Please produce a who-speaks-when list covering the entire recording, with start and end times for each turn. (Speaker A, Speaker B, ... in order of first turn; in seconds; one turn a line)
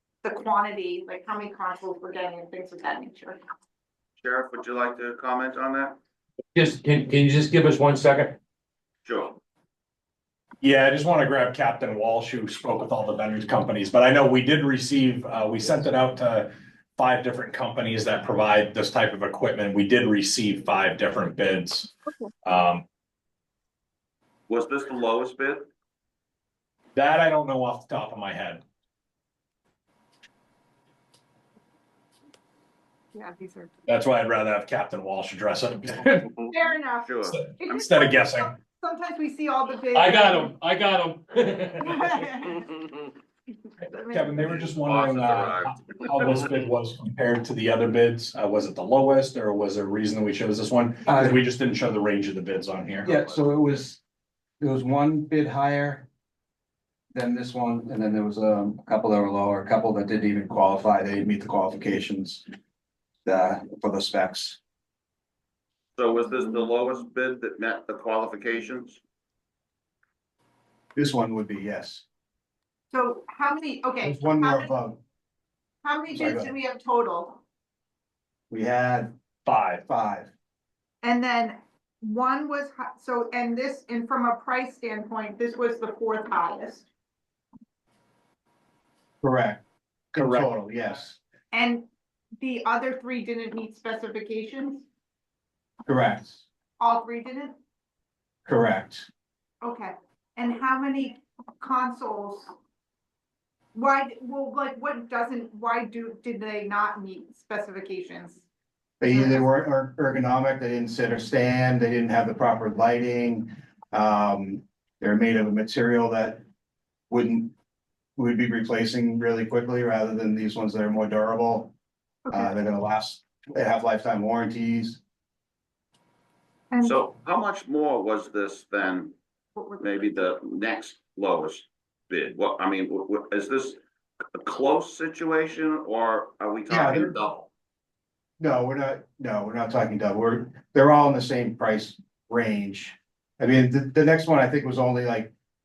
Speaker A: 0.2-3.4
Speaker B: 4.2-6.0
Speaker C: 6.5-8.4
Speaker B: 9.1-9.4
Speaker D: 10.6-22.8
Speaker B: 24.5-25.7
Speaker D: 26.9-28.6
Speaker A: 33.1-33.7
Speaker D: 33.9-36.4
Speaker A: 36.5-40.5
Speaker B: 37.0-37.4
Speaker D: 37.3-38.5
Speaker C: 40.1-40.4
Speaker D: 40.5-42.2
Speaker A: 41.8-42.7
Speaker A: 43.8-44.7
Speaker D: 44.0-53.2
Speaker B: 44.6-46.1
Speaker E: 51.0-51.4
Speaker E: 53.0-54.0
Speaker E: 54.6-56.1
Speaker E: 57.1-62.4
Speaker E: 63.2-64.6
Speaker B: 66.0-69.0
Speaker E: 71.0-72.0
Speaker A: 72.9-74.7
Speaker E: 74.0-75.0
Speaker A: 75.8-77.4
Speaker E: 76.1-76.5
Speaker E: 78.5-80.3
Speaker A: 81.0-86.9
Speaker E: 89.2-91.2
Speaker D: 90.2-90.5
Speaker A: 91.5-91.9
Speaker A: 92.4-94.8
Speaker E: 95.8-96.4
Speaker A: 96.8-97.5
Speaker E: 98.5-99.1
Speaker A: 99.6-102.5
Speaker A: 103.7-108.5
Speaker E: 109.0-116.4
Speaker A: 109.0-109.5
Speaker E: 117.1-117.5
Speaker E: 118.2-121.7
Speaker A: 122.2-122.5
Speaker E: 122.3-125.0
Speaker A: 126.7-127.0
Speaker B: 126.8-129.2
Speaker A: 129.5-130.2
Speaker B: 129.8-133.8
Speaker B: 134.3-137.5
Speaker E: 136.7-137.1
Speaker E: 138.4-145.3